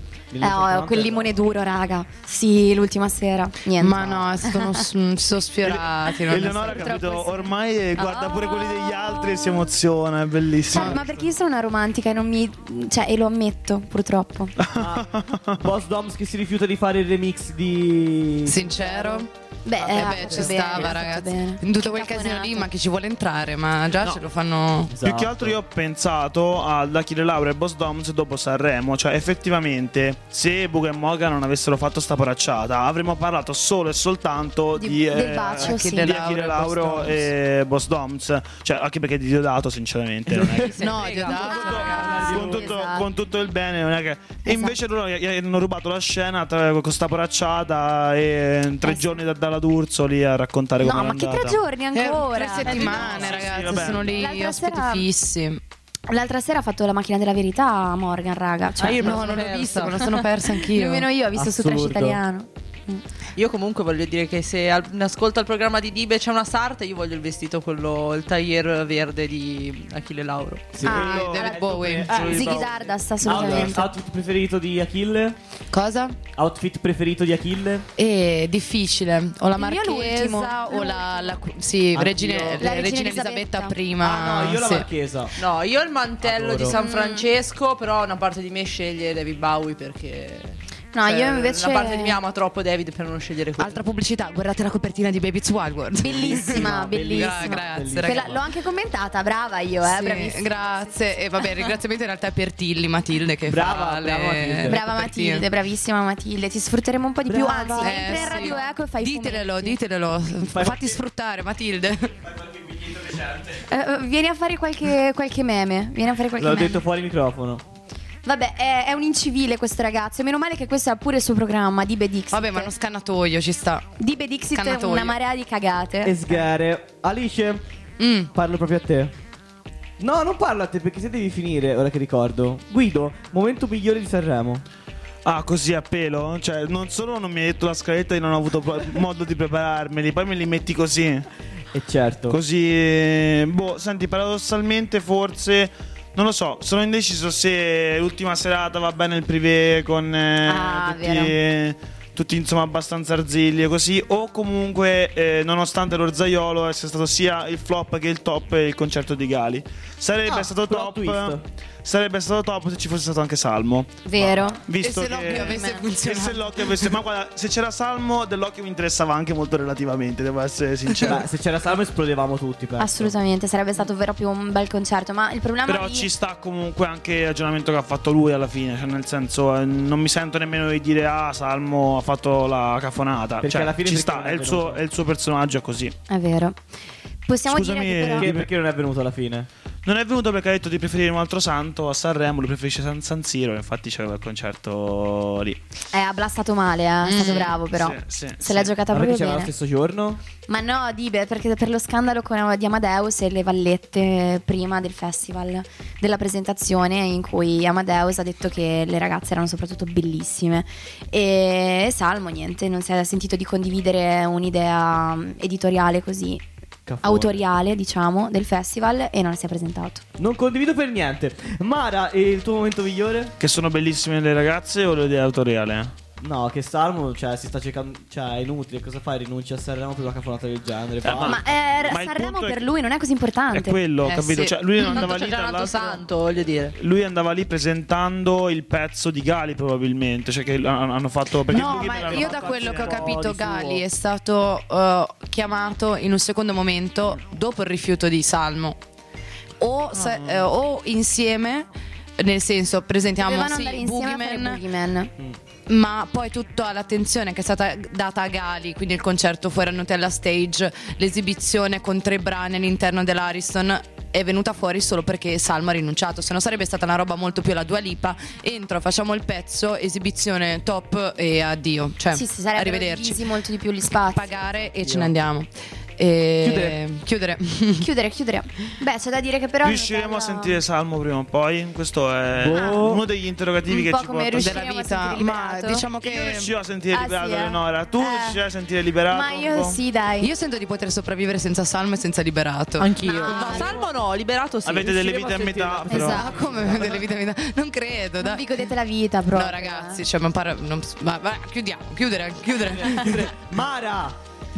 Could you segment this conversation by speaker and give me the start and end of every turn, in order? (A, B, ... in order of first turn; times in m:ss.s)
0:00.3-0:01.4 A
0:00.4-0:04.8 B
0:03.8-0:06.9 C
0:05.6-0:11.1 D
0:06.3-0:09.7 B
0:10.7-0:14.5 B
0:10.7-0:11.1 A
0:14.6-0:15.7 D
0:14.7-0:19.3 A
0:18.4-0:19.3 C
0:19.6-0:22.7 B
0:19.8-0:20.9 A
0:19.8-0:24.9 C
0:24.9-0:25.6 A
0:25.0-0:51.6 D
0:34.8-0:36.2 B
0:35.6-0:37.3 C
0:40.3-0:40.6 A
0:40.4-0:42.3 E
0:40.8-0:42.4 C
0:41.3-0:43.1 B
0:42.2-0:42.6 A
0:44.4-0:44.8 B
0:48.8-0:49.2 B
0:50.8-0:55.1 B
0:51.9-0:55.6 C
0:52.6-0:54.4 D
0:56.1-0:59.5 B
0:58.8-1:00.1 E
0:59.0-1:01.1 C
1:00.6-1:03.0 B
1:01.3-1:02.2 A
1:03.4-1:10.8 E
1:10.7-1:15.4 A
1:10.8-1:11.6 B
1:10.9-1:12.2 C
1:11.0-1:13.7 D
1:12.1-1:13.9 B
1:15.7-1:16.2 C
1:16.4-1:17.8 A
1:18.0-1:24.9 C
1:19.6-1:21.4 B
1:21.9-1:22.7 A
1:22.6-1:23.7 B
1:24.0-1:25.4 A
1:25.4-1:33.8 E
1:26.2-1:26.8 A
1:26.7-1:27.3 B
1:30.9-1:32.2 B
1:33.6-1:38.3 C
1:36.0-1:41.6 B
1:36.0-1:38.4 A
1:39.8-1:45.5 C
1:43.5-1:44.8 A
1:44.7-1:49.8 B
1:47.2-1:48.6 A
1:47.8-1:52.1 C
1:50.4-1:51.0 A
1:52.2-1:53.7 A
1:53.7-1:56.8 B
1:56.4-1:57.6 A
1:58.2-2:02.7 B
2:02.3-2:03.9 C
2:04.0-2:06.4 B
2:04.5-2:05.2 C
2:06.0-2:07.6 A
2:08.0-2:08.3 C
2:08.3-2:09.1 A
2:10.0-2:14.6 A
2:15.2-2:21.2 D
2:21.7-2:22.4 A
2:22.3-2:51.2 D
2:30.5-2:31.3 B
2:40.3-2:41.4 A
2:44.0-2:44.6 B
2:44.8-2:46.9 C
2:45.3-2:45.9 B
2:51.0-2:53.1 A
2:52.8-2:56.1 B
2:55.6-3:05.9 D
3:03.4-3:04.8 A
3:06.1-3:06.6 B
3:07.2-3:08.3 B
3:07.5-3:08.5 D
3:08.1-3:09.5 A
3:09.8-3:15.6 D
3:15.9-3:19.5 B
3:17.0-3:17.6 C
3:17.7-3:18.7 D
3:18.8-3:20.2 A
3:20.5-3:36.4 B
3:36.8-3:37.4 A
3:37.0-3:40.0 B
3:40.2-3:43.3 A
3:43.4-3:45.9 D
3:46.2-3:51.9 A
3:51.0-3:52.6 D
3:51.1-3:53.8 B
3:53.5-3:56.0 D
3:54.0-3:54.9 C
3:54.8-3:56.7 E
3:56.8-4:03.2 D
4:01.5-4:08.8 C
4:01.5-4:03.8 A
4:09.6-4:11.7 C
4:10.0-4:10.5 D
4:12.2-4:14.6 C
4:13.2-4:15.1 B
4:15.7-4:33.2 C
4:32.1-4:34.3 B
4:34.1-4:37.9 C
4:34.8-4:35.1 A
4:36.4-4:36.8 A
4:37.8-4:40.6 B
4:39.6-4:44.6 D
4:42.4-4:43.0 A
4:42.5-4:43.0 B
4:43.7-4:45.9 B
4:44.3-4:46.5 C
4:46.0-4:49.8 D
4:46.9-4:48.4 B
4:49.1-4:50.3 B
4:50.2-4:53.8 C
4:52.8-4:55.4 E
4:53.0-4:53.9 B
4:54.6-4:56.2 D
4:54.9-4:57.0 A
4:55.9-4:56.4 B
4:56.0-4:58.4 C
4:58.2-5:00.0 B
4:59.3-5:03.3 C
5:02.7-5:04.2 A